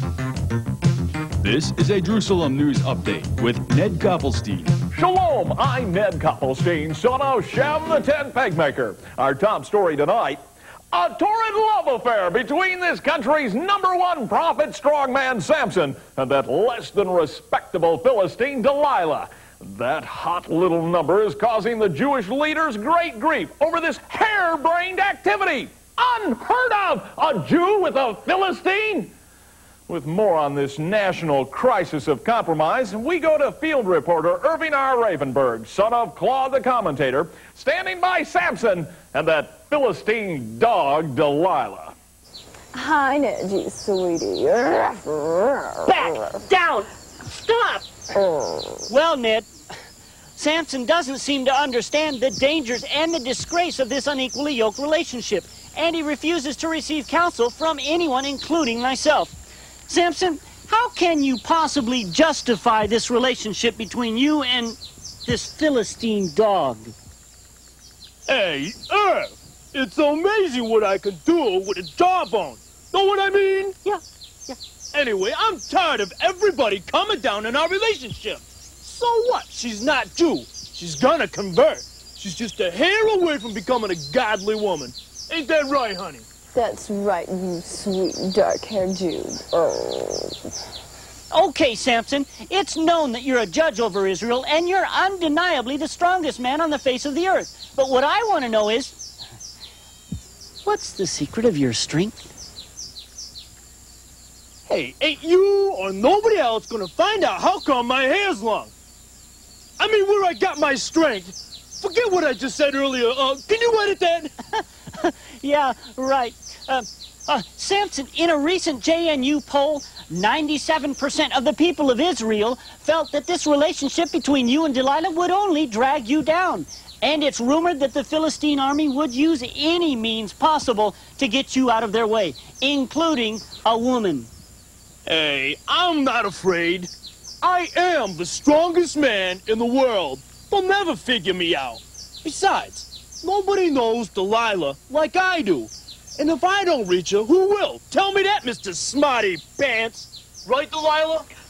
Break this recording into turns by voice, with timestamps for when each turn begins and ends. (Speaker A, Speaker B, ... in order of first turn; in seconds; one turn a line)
Speaker A: 1.4-4.7
Speaker B: 4.9-29.1
Speaker B: 29.9-41.9
Speaker C: 42.7-46.4
Speaker D: 45.9-47.9
Speaker C: 48.1-48.8
Speaker D: 48.9-49.5
Speaker D: 50.4-59.4
Speaker D: 59.9-66.9
Speaker E: 68.3-86.2
Speaker C: 86.5-90.4
Speaker D: 91.3-98.9
Speaker D: 100.6-102.3
Speaker E: 104.7-108.7
Speaker E: 109.8-114.3
Speaker D: 115.0-134.3
Speaker E: 135.1-136.9
Speaker E: 137.4-151.3